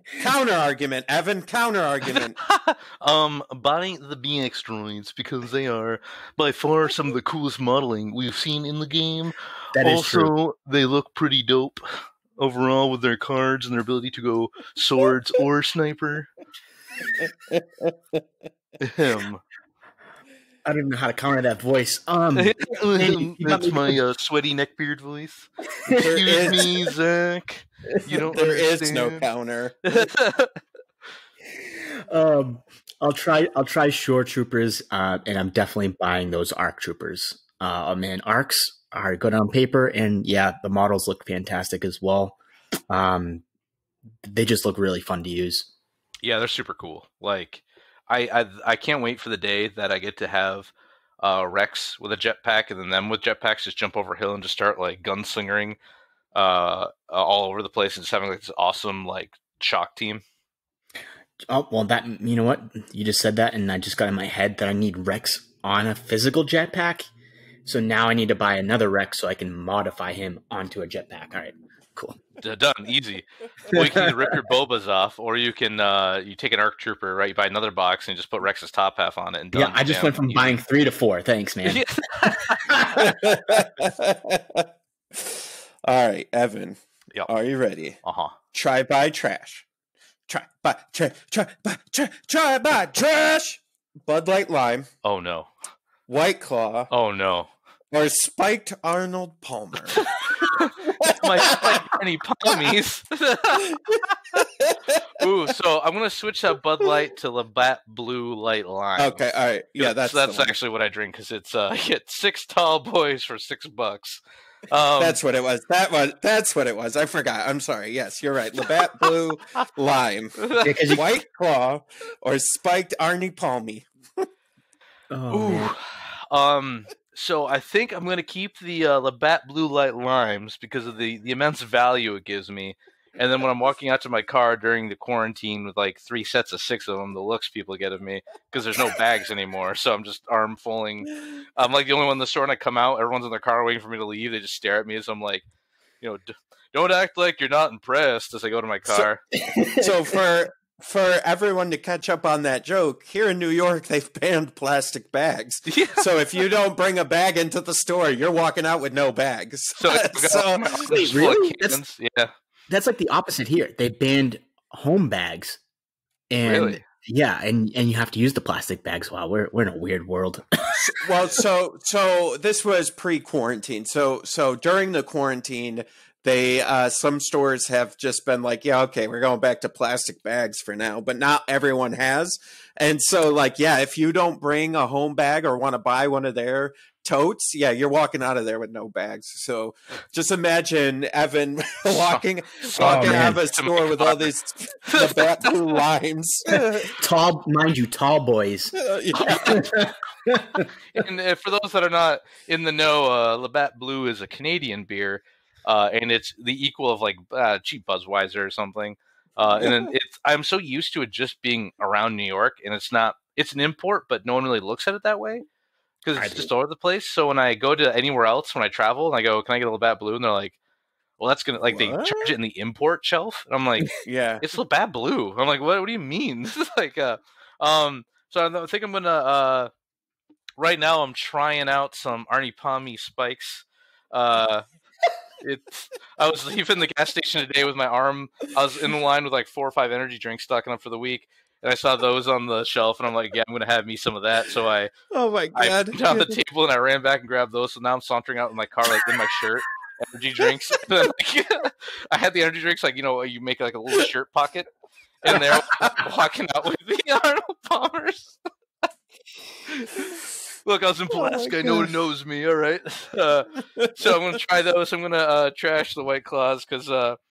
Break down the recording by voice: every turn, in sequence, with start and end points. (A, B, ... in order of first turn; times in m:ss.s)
0:00.2-0:02.4 A
0:02.4-0:16.3 B
0:09.7-0:10.3 C
0:17.5-0:17.9 A
0:18.8-0:19.4 B
0:20.6-0:24.0 C
0:22.3-0:29.3 B
0:25.8-0:26.1 C
0:26.0-0:26.7 A
0:28.3-0:30.0 A
0:29.8-0:30.6 B
0:31.6-0:42.4 C
0:42.9-0:43.4 C
0:44.2-0:45.7 C
0:46.2-0:55.8 B
0:56.3-1:00.2 B
1:01.5-1:07.1 C
1:07.6-1:12.2 C
1:12.4-1:20.6 B
1:13.7-1:14.2 C
1:19.5-1:23.2 C
1:21.6-1:23.0 B
1:23.0-1:28.0 A
1:28.0-1:28.3 B
1:28.5-1:29.6 A
1:30.3-1:34.9 A
1:35.0-1:35.5 B
1:36.1-1:36.9 A
1:36.9-1:37.5 B
1:37.9-1:40.2 A
1:39.9-1:43.8 B
1:40.8-1:41.9 A
1:43.9-1:45.2 A
1:45.2-1:49.2 B
1:49.0-1:50.5 A
1:49.8-1:55.2 B
1:55.0-2:04.2 A
2:00.4-2:00.7 B
2:00.6-2:01.0 C
2:05.1-2:05.7 C
2:05.3-2:25.4 B
2:26.0-2:29.2 B
2:28.8-2:29.1 A
2:29.3-2:29.9 C
2:29.8-2:40.9 A
2:35.7-2:36.0 B
2:39.8-2:42.3 B
2:40.8-2:41.8 C
2:42.7-2:45.6 C
2:46.3-2:50.9 C
2:46.4-2:46.8 B
2:50.8-3:16.9 A
3:11.9-3:14.3 B
3:12.8-3:13.4 C
3:14.9-3:15.8 B
3:16.9-3:20.7 C
3:18.8-3:19.7 A
3:19.2-3:19.7 B
3:20.9-3:35.4 B
3:36.0-3:40.6 B
3:36.2-3:36.5 C
3:41.2-3:49.7 B
3:41.7-3:42.3 A
3:44.0-3:44.4 A
3:50.6-3:54.6 B
3:55.4-4:04.9 B
4:05.1-4:06.4 A
4:05.5-4:14.7 B
4:15.2-4:18.4 B
4:19.7-4:20.1 B
4:20.6-4:27.2 B
4:21.1-4:21.9 A